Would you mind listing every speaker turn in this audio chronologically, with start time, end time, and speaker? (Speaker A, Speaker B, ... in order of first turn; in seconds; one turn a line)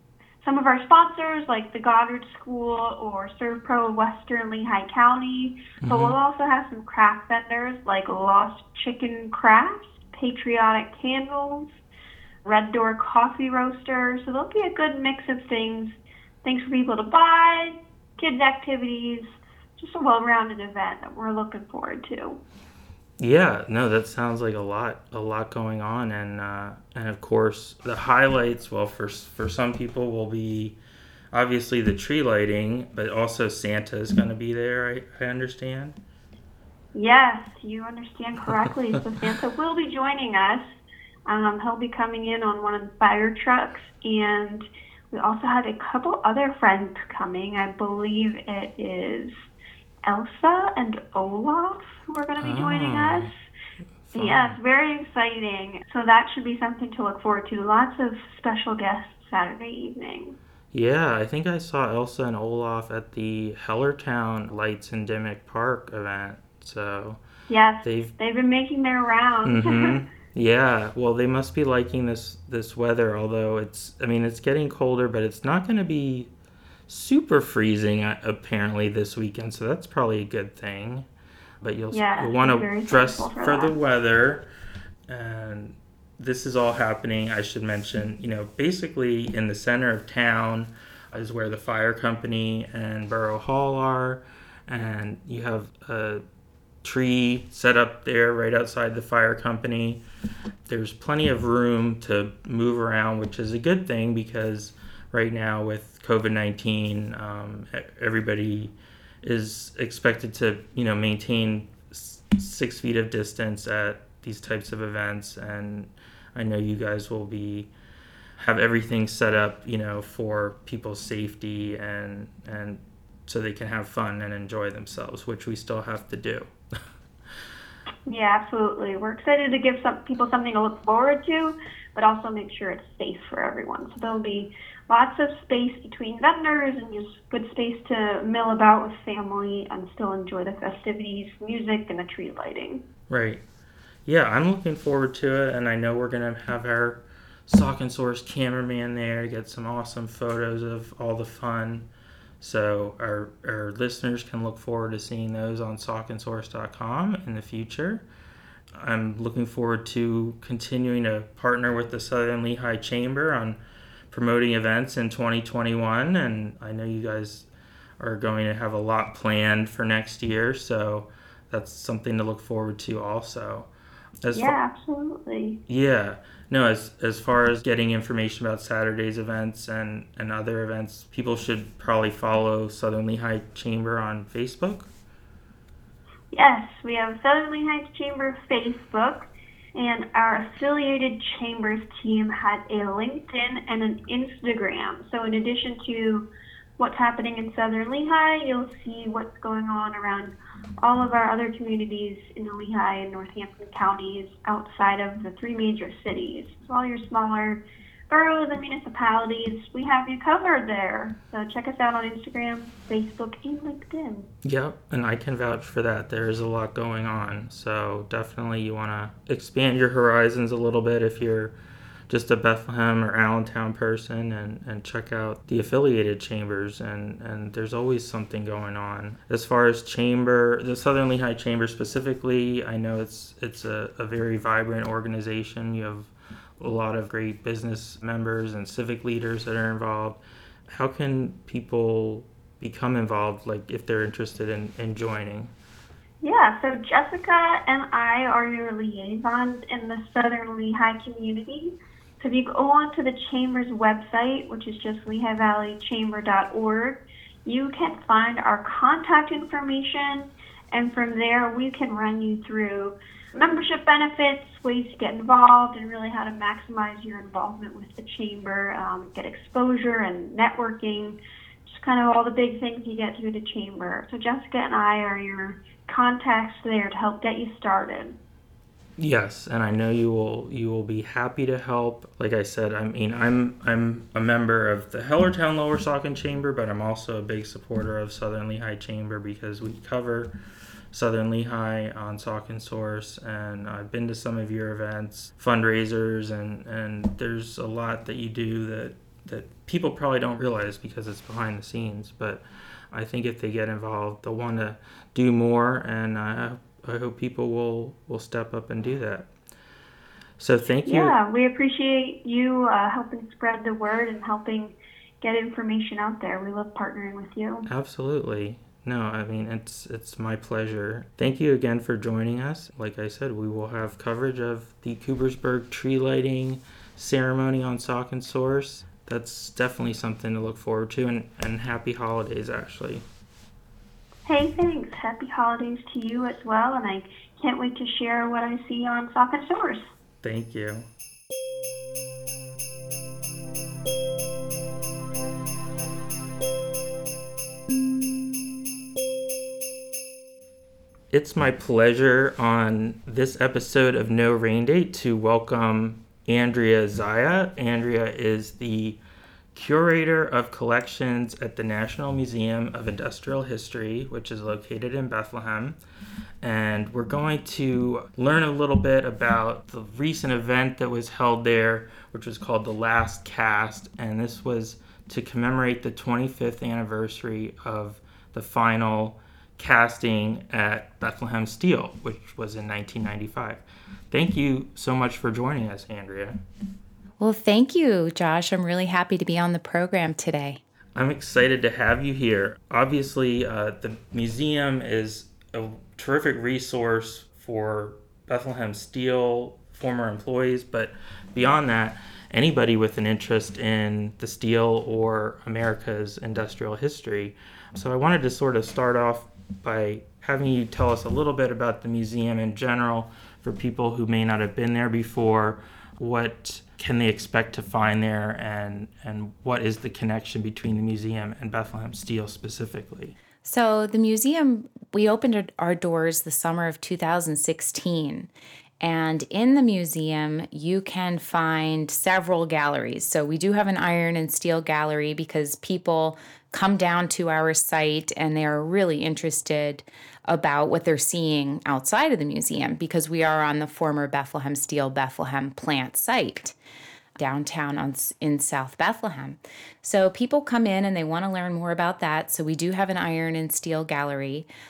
Speaker A: 0.4-11.8
Speaker B: 5.8-6.2
Speaker A: 12.4-22.4
Speaker B: 23.2-30.8
Speaker B: 31.3-36.0
Speaker A: 36.9-40.6
Speaker A: 41.2-49.4
Speaker A: 50.0-53.3
Speaker B: 52.4-53.3
Speaker B: 54.1-54.6
Speaker A: 54.1-60.4
Speaker B: 60.7-67.2
Speaker A: 67.5-70.0
Speaker B: 67.8-68.1
Speaker B: 69.4-76.3
Speaker B: 76.9-81.1
Speaker B: 81.6-84.5
Speaker A: 81.9-83.7
Speaker B: 85.1-96.2
Speaker B: 96.8-100.0
Speaker B: 100.7-117.7
Speaker B: 118.4-126.5
Speaker A: 128.1-142.8
Speaker B: 143.1-143.4
Speaker B: 144.1-151.9
Speaker B: 152.4-158.0
Speaker B: 158.8-163.6
Speaker B: 164.1-167.5
Speaker B: 168.0-173.7
Speaker B: 174.2-174.6
Speaker A: 174.3-175.6
Speaker B: 175.7-184.9
Speaker A: 186.3-196.2
Speaker A: 196.8-214.3
Speaker B: 214.4-221.5
Speaker B: 222.1-245.5
Speaker A: 246.2-278.1
Speaker B: 279.0-290.4
Speaker B: 290.9-309.3
Speaker B: 310.4-311.1
Speaker A: 310.9-317.6
Speaker B: 317.7-333.0
Speaker A: 334.2-339.9
Speaker B: 340.2-340.9
Speaker B: 351.1-359.0
Speaker B: 359.5-365.8
Speaker B: 366.4-386.4
Speaker C: 387.2-390.6
Speaker B: 390.9-423.2
Speaker C: 423.4-428.3
Speaker C: 428.8-446.6
Speaker C: 447.2-454.5